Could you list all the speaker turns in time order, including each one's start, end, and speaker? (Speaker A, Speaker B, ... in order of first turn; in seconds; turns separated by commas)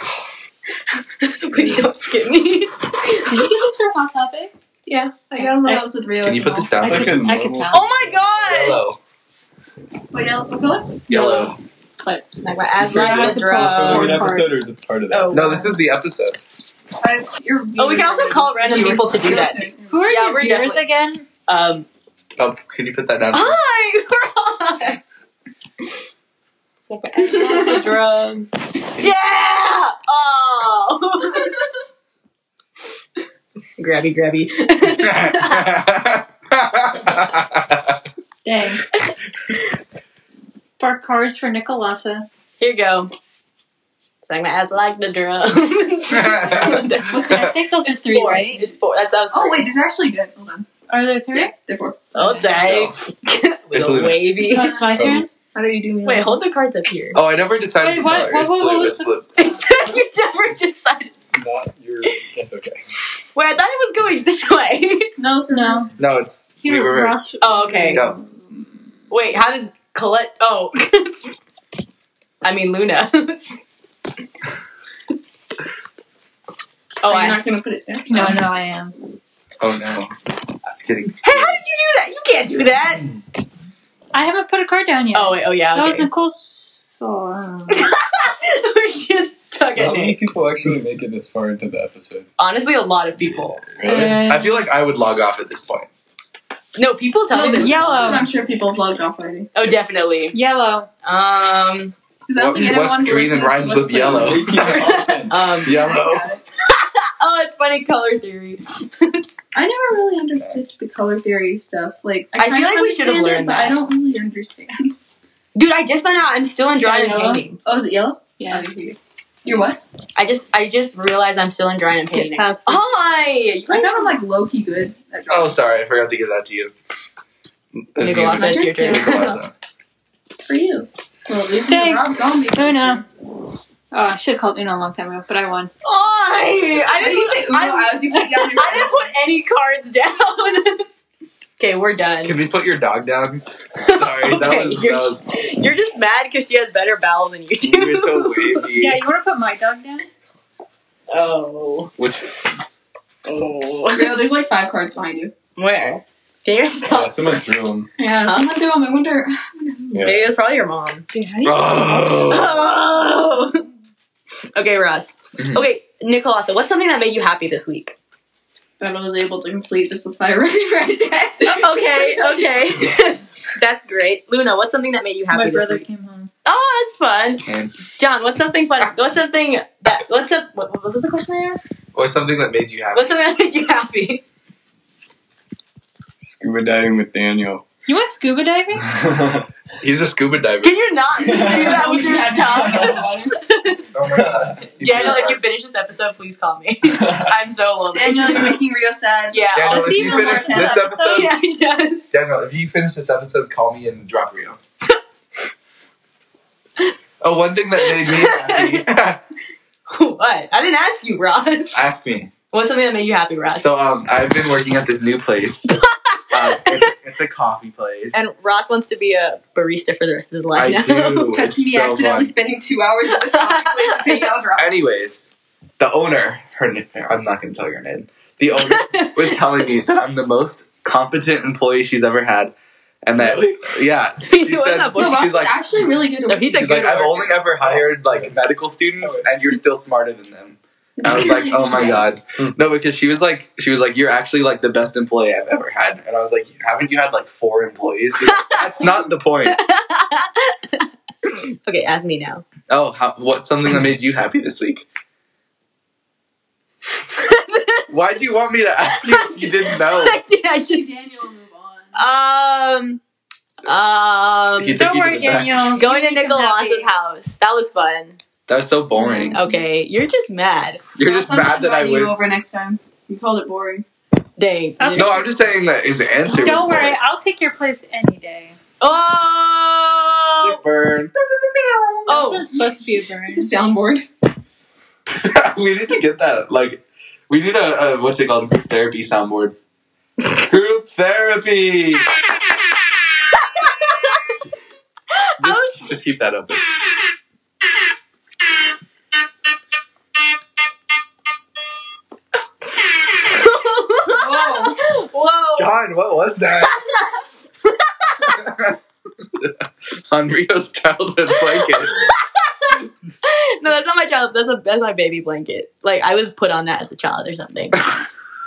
Speaker A: 1.2-3.6, Speaker B: 1.5-1.9, Speaker C: 3.2-4.5, Speaker A: 4.9-5.5, Speaker D: 5.3-6.9, Speaker E: 6.2-7.3, Speaker C: 6.8-7.9, Speaker B: 6.8-8.3, Speaker A: 7.7-8.9, Speaker E: 8.4-9.0, Speaker D: 10.1-11.1, Speaker E: 11.1-11.6, Speaker A: 11.1-11.5, Speaker A: 12.4-14.5, Speaker C: 12.8-14.7, Speaker B: 12.8-15.6, Speaker A: 15.1-15.8, Speaker E: 15.3-16.4, Speaker D: 17.0-20.2, Speaker A: 17.8-20.8, Speaker C: 19.9-21.2, Speaker A: 21.5-21.9, Speaker E: 22.4-23.6, Speaker A: 23.3-25.0, Speaker A: 26.8-31.6, Speaker D: 27.2-28.4, Speaker A: 33.8-35.8, Speaker E: 34.9-38.0, Speaker C: 38.5-38.9, Speaker C: 40.8-42.3, Speaker A: 42.6-43.1, Speaker A: 44.2-49.7, Speaker E: 46.1-47.5, Speaker C: 47.1-48.7, Speaker D: 49.3-50.7, Speaker C: 50.9-51.5, Speaker D: 51.5-52.0, Speaker A: 52.1-54.8, Speaker C: 52.2-52.5, Speaker E: 52.6-52.9, Speaker E: 53.7-54.4, Speaker C: 54.4-55.3, Speaker D: 54.6-54.9, Speaker B: 54.9-55.2, Speaker D: 55.5-56.5, Speaker A: 56.0-57.2, Speaker E: 57.1-59.2, Speaker C: 57.8-59.9, Speaker A: 59.4-61.1, Speaker B: 61.3-62.8, Speaker A: 63.4-65.1, Speaker D: 65.2-65.9, Speaker C: 65.5-65.9, Speaker E: 66.0-67.2, Speaker C: 66.6-68.3, Speaker A: 67.4-68.0, Speaker A: 69.1-71.3, Speaker A: 72.4-73.6, Speaker A: 77.0-77.4, Speaker D: 77.0-78.4, Speaker C: 78.1-79.0, Speaker E: 79.6-80.1, Speaker E: 80.6-81.6, Speaker A: 81.2-83.0, Speaker C: 84.1-87.9, Speaker A: 85.1-86.1, Speaker A: 87.7-90.2, Speaker B: 89.7-92.3, Speaker A: 92.4-93.6, Speaker B: 93.7-94.2, Speaker C: 93.8-94.7, Speaker E: 93.8-95.9, Speaker A: 96.8-98.3, Speaker D: 97.3-99.5, Speaker C: 97.5-98.3, Speaker A: 99.5-100.4, Speaker C: 100.3-100.9, Speaker A: 101.0-101.9, Speaker D: 102.3-104.7, Speaker E: 102.4-105.0, Speaker B: 104.0-105.6, Speaker A: 104.7-105.8, Speaker D: 105.6-106.4, Speaker E: 105.6-106.3, Speaker A: 106.6-109.2, Speaker D: 109.5-115.0, Speaker A: 112.3-113.8, Speaker A: 115.5-117.6, Speaker C: 116.8-117.4, Speaker D: 117.6-119.8, Speaker C: 118.4-118.7, Speaker A: 120.2-124.2, Speaker C: 122.1-122.9, Speaker D: 123.7-125.8, Speaker E: 125.3-126.7, Speaker E: 127.9-129.5, Speaker A: 128.0-129.4, Speaker D: 128.3-129.2, Speaker D: 130.4-133.1, Speaker C: 131.6-133.0, Speaker C: 133.9-135.7, Speaker A: 135.8-140.9, Speaker D: 136.8-139.1, Speaker A: 141.6-142.4, Speaker E: 142.2-145.2, Speaker A: 143.8-148.6, Speaker E: 147.6-149.0, Speaker C: 148.7-150.2, Speaker A: 151.1-151.9, Speaker E: 152.0-152.3, Speaker A: 153.2-154.3, Speaker D: 153.9-155.3, Speaker A: 155.6-157.2, Speaker B: 156.8-157.9, Speaker D: 158.0-159.9, Speaker A: 158.2-158.5, Speaker B: 159.9-160.3, Speaker A: 159.9-161.1, Speaker C: 161.1-161.5, Speaker E: 161.4-162.6, Speaker A: 162.3-163.6, Speaker A: 164.6-167.9, Speaker E: 165.4-165.7, Speaker D: 168.8-172.9, Speaker A: 171.4-175.9, Speaker C: 175.3-176.3, Speaker A: 176.4-177.4, Speaker E: 177.4-177.8, Speaker A: 178.0-181.7, Speaker E: 181.9-183.2, Speaker A: 182.9-184.2, Speaker B: 186.2-187.6, Speaker C: 187.9-188.9, Speaker B: 188.8-189.5, Speaker E: 189.8-190.8, Speaker A: 190.6-193.8, Speaker D: 191.2-193.4, Speaker B: 191.2-192.0, Speaker E: 193.9-195.4, Speaker B: 194.2-194.6, Speaker A: 194.8-198.6, Speaker B: 197.0-197.3, Speaker D: 197.9-200.9, Speaker A: 199.3-200.0, Speaker E: 199.5-201.3, Speaker C: 199.6-201.3, Speaker A: 201.0-202.1, Speaker E: 202.1-204.6, Speaker E: 207.2-209.2, Speaker A: 207.8-208.8, Speaker A: 209.9-211.9, Speaker E: 211.7-212.3, Speaker A: 212.5-213.7, Speaker E: 213.6-215.8, Speaker A: 216.1-216.8, Speaker E: 216.3-218.2, Speaker A: 218.1-221.4, Speaker E: 220.5-222.3, Speaker D: 221.3-224.7, Speaker A: 223.2-224.3, Speaker E: 224.6-232.5, Speaker A: 228.5-229.7, Speaker E: 233.1-235.6, Speaker B: 233.2-233.4, Speaker A: 234.2-235.3, Speaker D: 234.9-236.8, Speaker A: 236.3-237.4, Speaker E: 236.5-249.6, Speaker B: 237.6-238.3, Speaker B: 239.0-239.5, Speaker D: 241.0-242.1, Speaker A: 241.1-242.1, Speaker A: 248.2-252.4, Speaker E: 252.7-254.8, Speaker A: 257.1-257.9, Speaker E: 257.9-260.2, Speaker A: 258.9-260.9, Speaker D: 260.7-262.0, Speaker A: 261.9-263.0, Speaker A: 263.6-264.8, Speaker E: 264.6-265.8, Speaker C: 264.8-266.9, Speaker A: 265.7-268.2, Speaker E: 268.5-269.4, Speaker D: 269.0-269.4, Speaker A: 269.3-270.8, Speaker E: 270.9-272.1, Speaker D: 271.0-273.9, Speaker A: 274.4-275.4, Speaker C: 274.8-275.3, Speaker E: 274.9-277.0, Speaker A: 276.3-276.7, Speaker C: 276.3-278.6, Speaker A: 278.8-280.6, Speaker E: 280.4-281.1, Speaker D: 281.2-282.2, Speaker A: 282.1-282.5, Speaker C: 282.1-283.5, Speaker D: 283.3-284.1, Speaker E: 285.1-289.6, Speaker E: 290.4-292.1, Speaker A: 293.6-294.1, Speaker A: 295.1-295.9, Speaker E: 295.4-296.6, Speaker A: 303.0-305.7, Speaker D: 304.1-304.8, Speaker E: 305.6-306.8, Speaker A: 306.5-308.4, Speaker E: 308.2-308.8, Speaker E: 309.3-312.1, Speaker A: 311.3-317.8